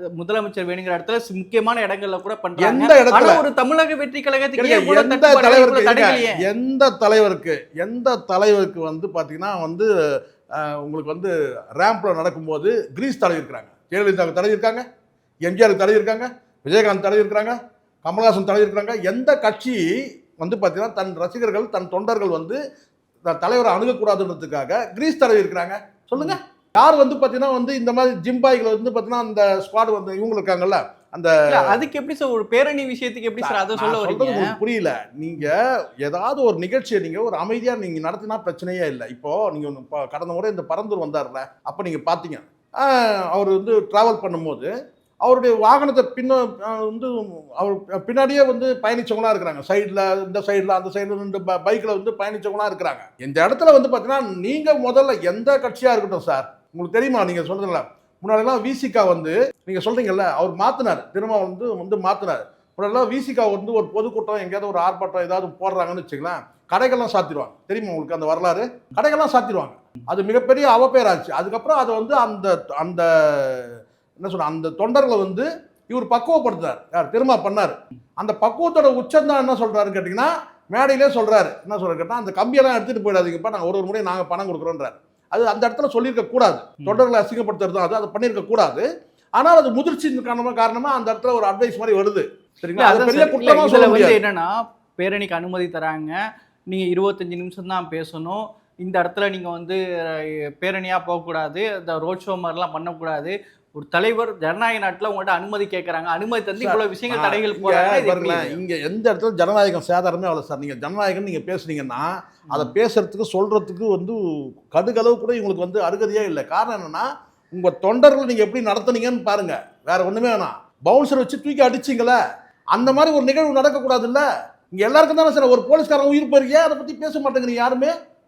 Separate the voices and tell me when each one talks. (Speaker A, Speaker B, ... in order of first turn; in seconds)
Speaker A: 0.1-6.5, 31.5-34.5, 92.8-96.2, 96.7-108.6
Speaker B: 2.6-3.4, 4.6-9.9, 10.5-14.8, 15.4-22.6, 23.2-31.3, 33.4-44.7, 45.2-88.8, 89.4-94.2, 106.6-114.2, 114.7-122.2, 122.7-127.9